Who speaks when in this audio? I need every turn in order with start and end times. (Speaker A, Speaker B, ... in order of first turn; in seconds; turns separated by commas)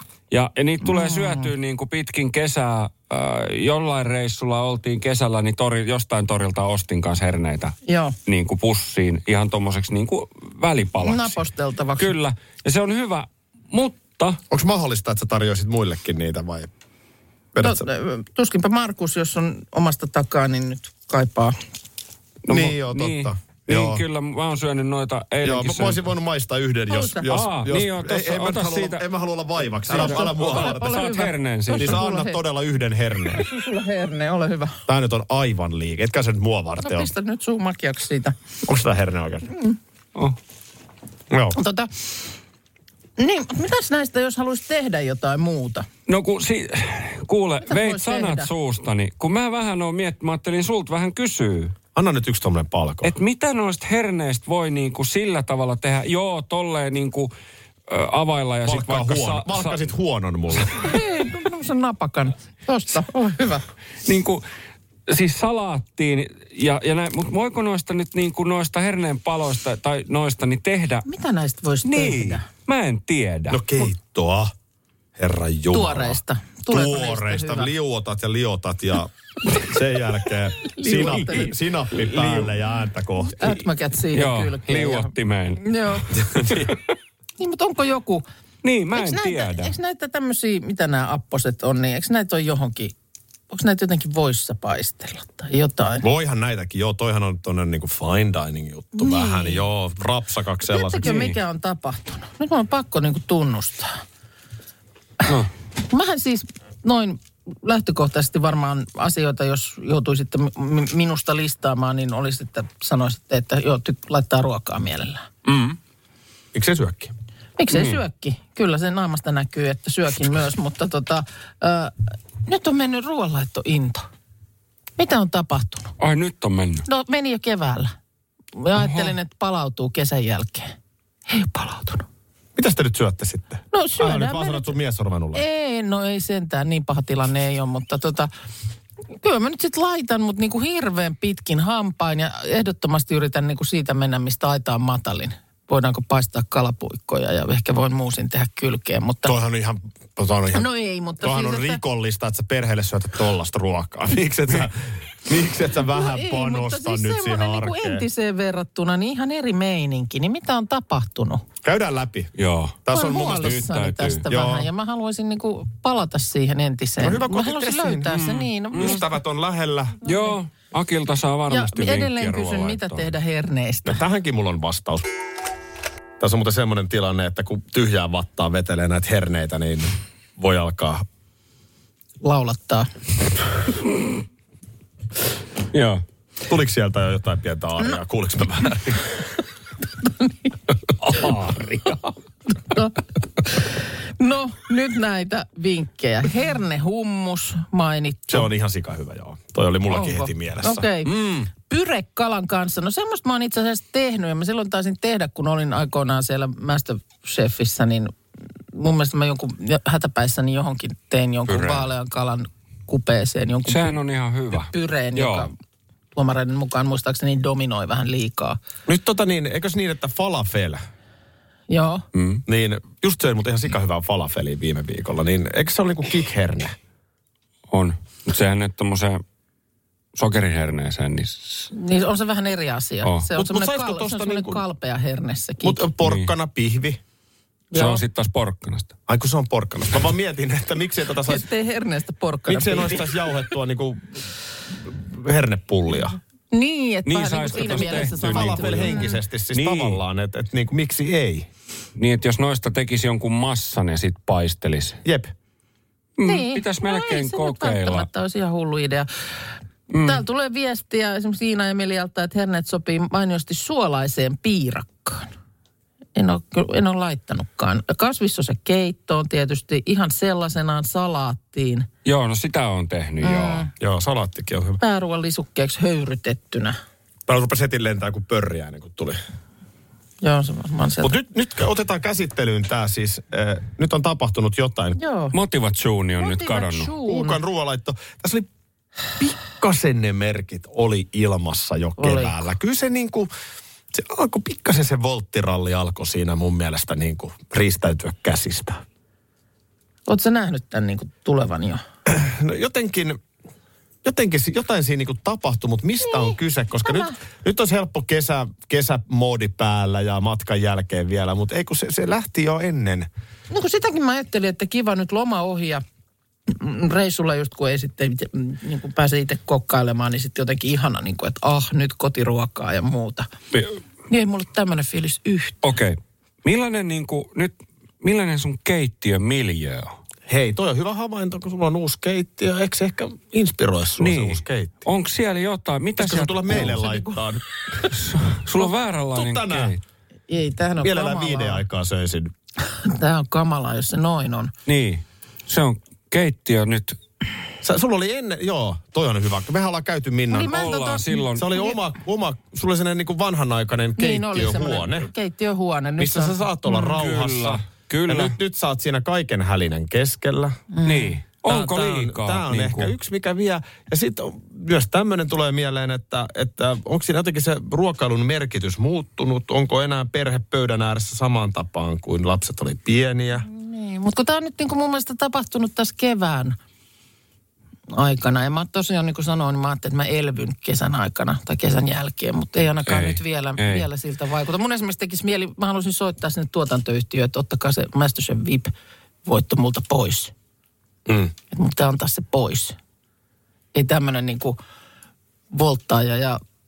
Speaker A: 0.3-11.4, Speaker B: 0.8-1.5, Speaker B: 7.9-8.2, Speaker B: 11.0-12.1, Speaker A: 12.0-14.4, Speaker C: 14.5-16.7, Speaker C: 17.5-17.9, Speaker B: 17.6-21.6, Speaker A: 22.4-26.0, Speaker C: 22.5-24.0, Speaker C: 25.4-30.9, Speaker B: 26.9-27.3, Speaker A: 27.2-29.1, Speaker B: 29.9-32.4, Speaker A: 29.9-32.1, Speaker C: 31.8-33.5, Speaker B: 33.3-34.8, Speaker C: 34.9-37.1, Speaker B: 36.8-38.4, Speaker C: 38.6-39.5, Speaker C: 41.3-41.6, Speaker B: 41.5-42.1, Speaker B: 43.2-45.9, Speaker A: 46.1-51.8, Speaker B: 47.6-48.5, Speaker C: 52.0-53.1, Speaker A: 53.0-57.3, Speaker A: 57.9-59.8, Speaker C: 58.6-60.9, Speaker B: 60.8-63.6, Speaker A: 64.0-64.5, Speaker A: 65.1-71.1, Speaker B: 71.1-72.5, Speaker A: 71.8-73.6, Speaker C: 73.5-74.5, Speaker C: 75.2-83.6, Speaker B: 75.7-77.7, Speaker B: 80.7-81.5, Speaker A: 80.9-82.5, Speaker B: 83.3-86.1, Speaker A: 84.1-86.8, Speaker C: 86.3-86.7, Speaker B: 87.4-88.3, Speaker A: 88.6-89.7, Speaker B: 88.9-93.0, Speaker B: 93.5-96.0, Speaker C: 96.0-101.2, Speaker B: 99.0-99.7, Speaker B: 100.7-104.0, Speaker A: 101.0-101.4, Speaker B: 105.9-115.3, Speaker A: 115.5-115.8, Speaker C: 116.5-117.1, Speaker B: 117.6-124.1, Speaker A: 117.7-118.0, Speaker B: 125.0-125.9, Speaker A: 126.0-126.9, Speaker B: 126.9-127.9, Speaker B: 128.6-130.7, Speaker A: 128.8-129.1, Speaker B: 131.3-132.1, Speaker C: 132.6-135.4, Speaker B: 133.7-134.7, Speaker B: 135.3-138.3, Speaker B: 139.2-149.3, Speaker C: 149.2-150.7, Speaker B: 150.5-151.8, Speaker C: 151.2-158.1, Speaker B: 155.9-161.4, Speaker C: 161.6-162.3, Speaker A: 162.4-164.2, Speaker C: 162.9-163.7, Speaker B: 162.9-169.1, Speaker C: 164.3-164.7, Speaker C: 167.0-170.0, Speaker A: 168.1-169.0, Speaker A: 170.0-173.1, Speaker B: 170.1-170.3, Speaker B: 171.5-174.0, Speaker C: 173.9-175.1, Speaker C: 176.2-181.1, Speaker B: 182.2-182.9, Speaker A: 185.7-186.0, Speaker C: 186.5-189.2, Speaker B: 190.0-190.3, Speaker A: 191.0-192.0, Speaker B: 192.6-198.5, Speaker C: 198.3-200.9, Speaker B: 199.9-208.2, Speaker A: 201.1-201.5, Speaker B: 208.7-214.0, Speaker A: 211.5-211.9, Speaker A: 213.7-215.5, Speaker B: 214.5-215.5, Speaker B: 216.1-218.6, Speaker C: 218.9-220.8, Speaker B: 221.7-222.1, Speaker A: 222.1-222.4, Speaker C: 222.5-226.8, Speaker A: 227.7-229.2, Speaker A: 230.2-231.7, Speaker B: 231.7-235.8, Speaker C: 233.3-234.6, Speaker C: 235.6-237.0, Speaker A: 236.0-236.3, Speaker B: 237.7-238.0, Speaker A: 237.7-238.9, Speaker C: 239.1-241.5, Speaker B: 241.3-243.3, Speaker C: 242.5-246.2, Speaker B: 246.5-249.2, Speaker A: 247.1-249.0, Speaker C: 247.5-251.5, Speaker A: 249.5-250.0, Speaker A: 252.0-255.0, Speaker C: 255.1-255.3, Speaker A: 256.2-258.1, Speaker B: 256.2-259.1, Speaker A: 259.9-260.2, Speaker B: 260.0-265.3, Speaker B: 266.1-271.9, Speaker A: 272.1-273.7, Speaker B: 273.2-273.7, Speaker C: 273.8-274.8, Speaker B: 274.8-276.8, Speaker C: 277.3-279.2, Speaker B: 280.2-281.1, Speaker C: 281.0-285.0, Speaker B: 285.0-285.4, Speaker A: 285.3-286.9, Speaker B: 286.2-287.4, Speaker C: 287.1-288.5, Speaker C: 289.2-293.3, Speaker B: 292.0-292.5, Speaker C: 293.9-298.8, Speaker B: 300.1-301.8, Speaker C: 302.1-303.2, Speaker C: 304.0-313.1, Speaker B: 306.1-307.1, Speaker B: 313.5-315.8, Speaker B: 316.5-323.3, Speaker B: 324.1-325.6, Speaker A: 325.6-329.9, Speaker C: 330.3-334.9, Speaker A: 334.0-336.8, Speaker C: 336.0-337.9, Speaker B: 336.5-337.1, Speaker A: 337.9-339.8, Speaker C: 339.1-339.8, Speaker B: 340.3-341.6, Speaker C: 340.8-342.3, Speaker B: 342.7-344.5, Speaker A: 344.7-347.0, Speaker C: 347.6-350.6, Speaker B: 350.3-351.8, Speaker A: 350.5-351.5, Speaker C: 351.4-355.1, Speaker B: 354.0-356.4, Speaker C: 356.0-360.6, Speaker A: 356.7-358.4, Speaker B: 360.7-361.2, Speaker A: 360.9-362.9, Speaker C: 361.4-373.5, Speaker B: 373.4-376.6, Speaker B: 377.9-388.7, Speaker A: 382.9-383.9, Speaker B: 389.2-390.3, Speaker C: 391.1-391.3, Speaker B: 391.5-392.8, Speaker B: 393.7-394.6, Speaker B: 395.5-396.4